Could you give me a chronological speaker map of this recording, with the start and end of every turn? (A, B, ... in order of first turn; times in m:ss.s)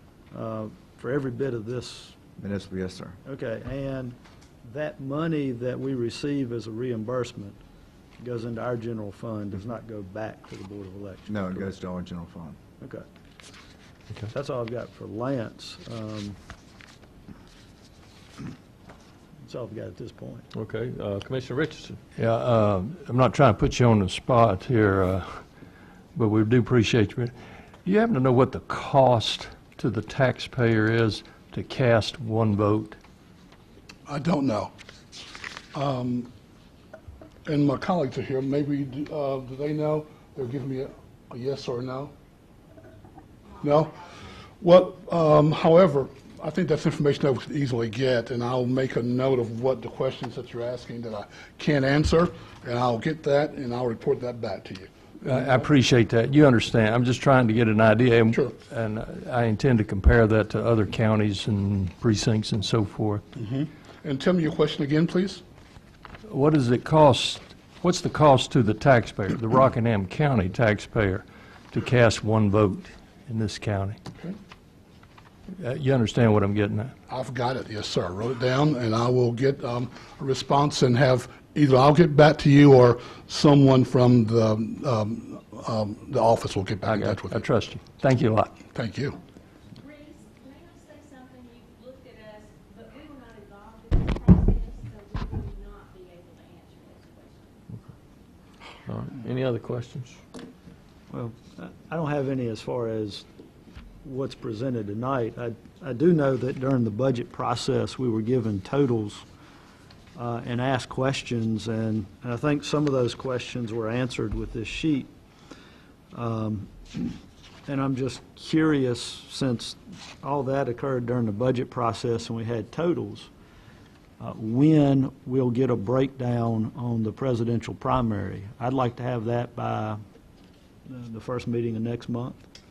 0:00.3-0:02.2 A
0:02.4-0:03.2 B
0:03.2-0:07.6 A
0:08.2-0:11.7 A
0:11.3-0:12.6 B
0:12.8-0:13.0 A
0:14.3-0:16.4 A
0:19.4-0:20.4 A
0:20.5-0:22.0 C
0:22.2-0:25.4 D
0:26.1-0:27.3 D
0:27.8-0:33.0 D
0:34.1-0:34.7 E
0:35.7-0:36.3 E
0:37.4-0:42.1 E
0:43.5-0:44.3 F
0:43.6-0:44.0 E
0:44.6-0:55.7 E
0:55.2-1:03.2 D
1:03.3-1:05.4 E
1:06.3-1:14.0 D
1:15.6-1:16.9 D
1:17.1-1:27.4 E
1:26.9-1:28.6 D
1:28.7-1:29.2 E
1:29.7-1:37.6 F
1:38.9-1:40.2 C
1:41.1-1:43.2 A
1:44.0-1:49.2 A
1:50.1-1:55.1 A
1:56.1-2:03.3 A
2:04.2-2:10.0 A
2:10.9-2:12.4 A